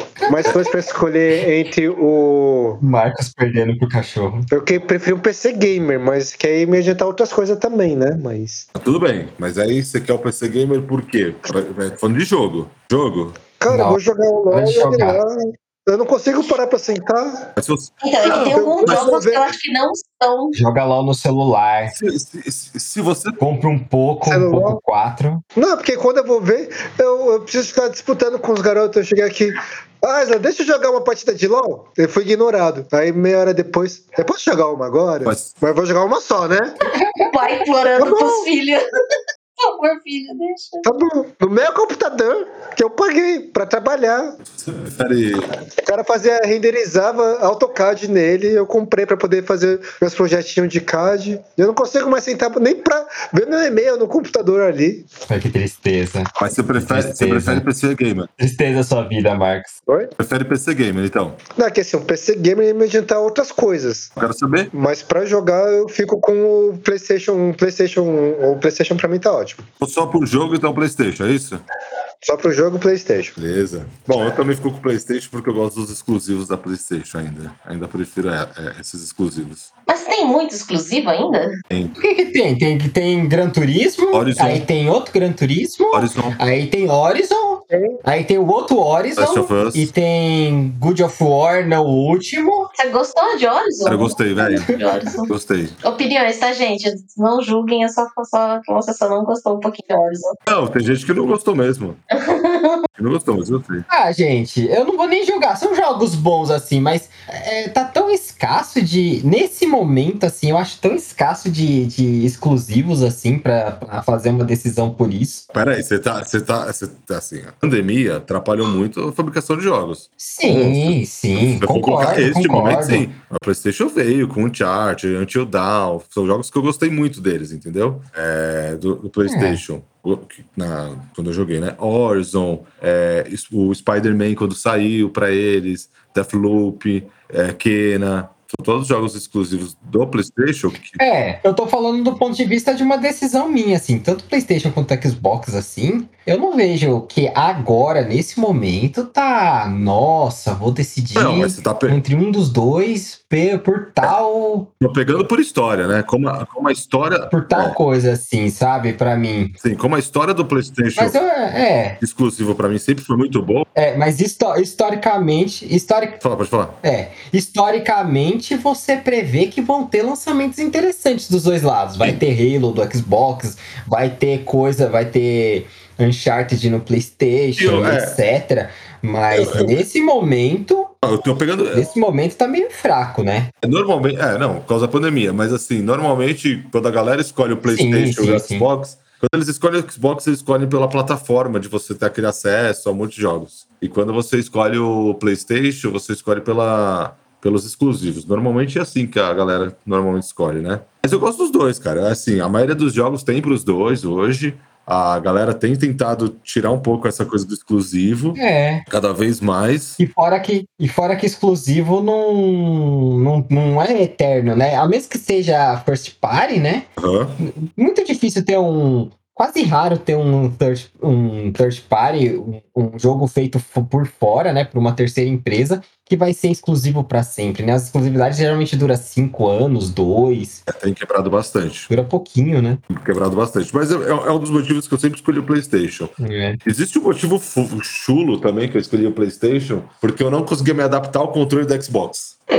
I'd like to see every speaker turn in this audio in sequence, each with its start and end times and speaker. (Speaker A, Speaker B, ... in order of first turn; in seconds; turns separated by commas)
Speaker A: 0.2-0.7, Speaker B: 0.3-2.8, Speaker A: 2.8-4.5, Speaker B: 4.5-8.7, Speaker C: 8.8-13.4, Speaker B: 13.6-17.5, Speaker A: 13.7-14.0, Speaker A: 14.5-15.2, Speaker C: 17.6-19.1, Speaker D: 18.0-20.6, Speaker B: 18.3-19.5, Speaker A: 20.5-21.9, Speaker C: 21.9-23.4, Speaker A: 23.4-25.4, Speaker B: 24.2-24.8, Speaker B: 25.6-36.8, Speaker C: 35.2-35.5, Speaker A: 37.0-37.3, Speaker D: 37.3-38.8, Speaker B: 38.0-38.5, Speaker D: 39.6-40.9, Speaker B: 40.8-44.4, Speaker C: 44.6-45.5, Speaker B: 45.8-55.1, Speaker A: 55.3-57.6, Speaker C: 56.4-58.3, Speaker A: 58.4-59.8, Speaker C: 60.2-61.4, Speaker B: 61.6-64.1, Speaker C: 64.2-64.7, Speaker B: 64.7-69.6, Speaker C: 69.8-71.6, Speaker B: 72.2-73.3, Speaker C: 73.4-79.7, Speaker D: 79.9-81.5, Speaker C: 81.7-82.0, Speaker A: 82.0-92.7, Speaker C: 84.1-84.7, Speaker C: 85.9-86.4, Speaker B: 87.7-88.0, Speaker C: 89.2-89.9, Speaker D: 92.8-95.3, Speaker C: 93.9-94.8, Speaker C: 95.3-95.8, Speaker D: 95.8-100.4, Speaker C: 100.5-102.0, Speaker D: 102.1-102.8, Speaker C: 103.0-103.9, Speaker A: 103.9-115.5, Speaker C: 115.5-141.0, Speaker A: 120.2-123.1, Speaker A: 129.3-129.6, Speaker A: 141.0-154.7, Speaker C: 151.2-152.0, Speaker C: 154.8-157.8, Speaker A: 157.3-159.6, Speaker C: 159.6-161.2, Speaker A: 161.0-162.0, Speaker C: 162.0-163.7, Speaker A: 163.8-166.2, Speaker C: 166.2-166.8, Speaker A: 166.8-180.9, Speaker C: 177.6-178.2, Speaker C: 179.3-179.8, Speaker C: 181.0-181.9, Speaker A: 181.7-183.5, Speaker C: 183.6-210.0, Speaker A: 187.6-188.7, Speaker A: 208.4-208.8, Speaker A: 210.0-216.9, Speaker C: 217.0-217.4, Speaker A: 217.4-230.6, Speaker C: 230.7-231.9, Speaker A: 231.9-232.8, Speaker C: 232.9-242.3, Speaker A: 236.2-236.6